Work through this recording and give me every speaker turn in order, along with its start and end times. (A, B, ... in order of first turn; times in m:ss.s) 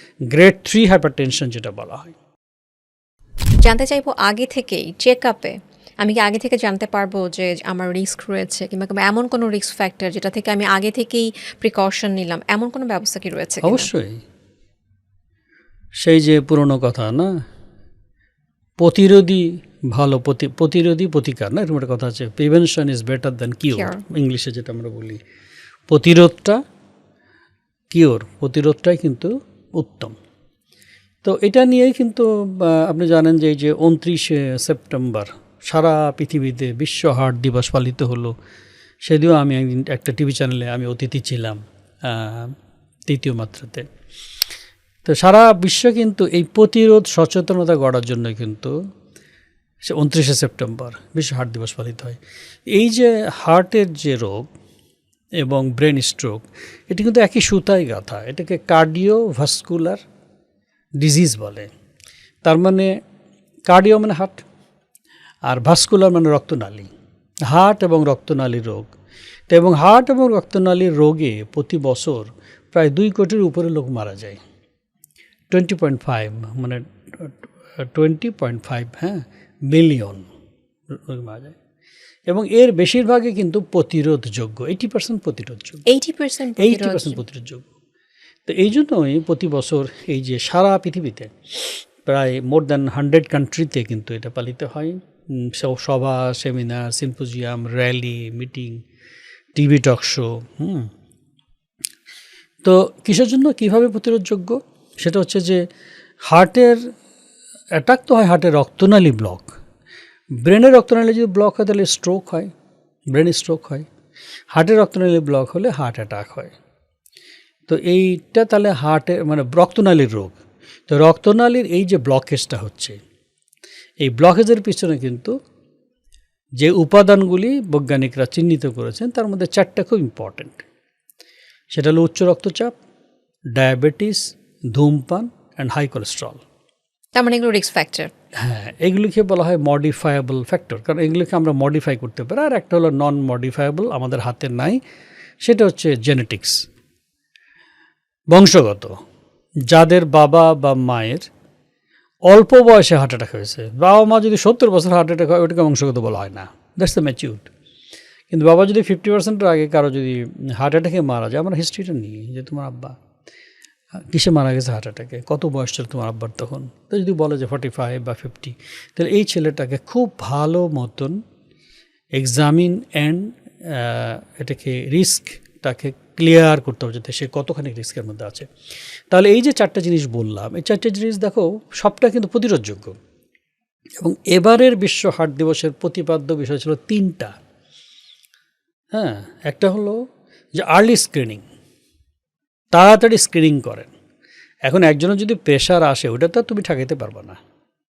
0:00.3-0:02.1 A
0:03.6-0:13.9 B
0:13.6-0:14.2 A
0:16.0-0:17.3 A
0:18.8-0:25.2 A
0:23.8-0:24.0 B
0:25.9-0:26.6 A
0:27.9-0:30.1 A
0:31.2-0:38.3 A
0:39.0-0:42.6 A
0:43.1-0:43.9 A
0:45.0-0:48.7 A
0:49.8-0:52.2 A
0:52.7-0:54.5 A
0:55.4-1:00.0 A
1:01.0-1:01.7 A
1:02.4-1:03.0 A
1:03.6-1:04.4 A
1:05.4-1:06.9 A
1:07.5-1:08.9 A
1:09.5-1:14.4 A
1:15.5-1:20.3 A
1:20.9-1:21.6 A
1:22.3-1:25.8 A
1:25.9-1:27.2 B
1:26.6-1:27.7 A
1:28.5-1:38.8 A
1:39.5-1:40.9 A
1:42.6-1:45.7 A
1:46.2-1:46.9 A
1:47.7-1:49.6 A
1:50.4-1:52.5 A
1:53.1-1:53.9 A
1:54.5-1:56.5 A
1:57.7-2:03.0 A
2:04.0-2:05.3 A
2:06.6-2:10.6 A
2:11.7-2:12.7 A
2:13.5-2:16.4 A
2:17.1-2:18.1 B
2:18.4-2:24.8 A
2:25.4-2:26.7 A
2:28.3-2:29.0 A
2:29.7-2:31.3 A
2:32.2-2:37.5 A
2:38.3-2:43.0 A
2:44.1-2:51.2 A
2:52.1-2:58.5 A
2:59.1-3:03.0 A
3:04.0-3:07.3 A
3:08.9-3:10.0 A
3:10.5-3:11.4 A
3:12.7-3:13.9 A
3:14.6-3:17.4 A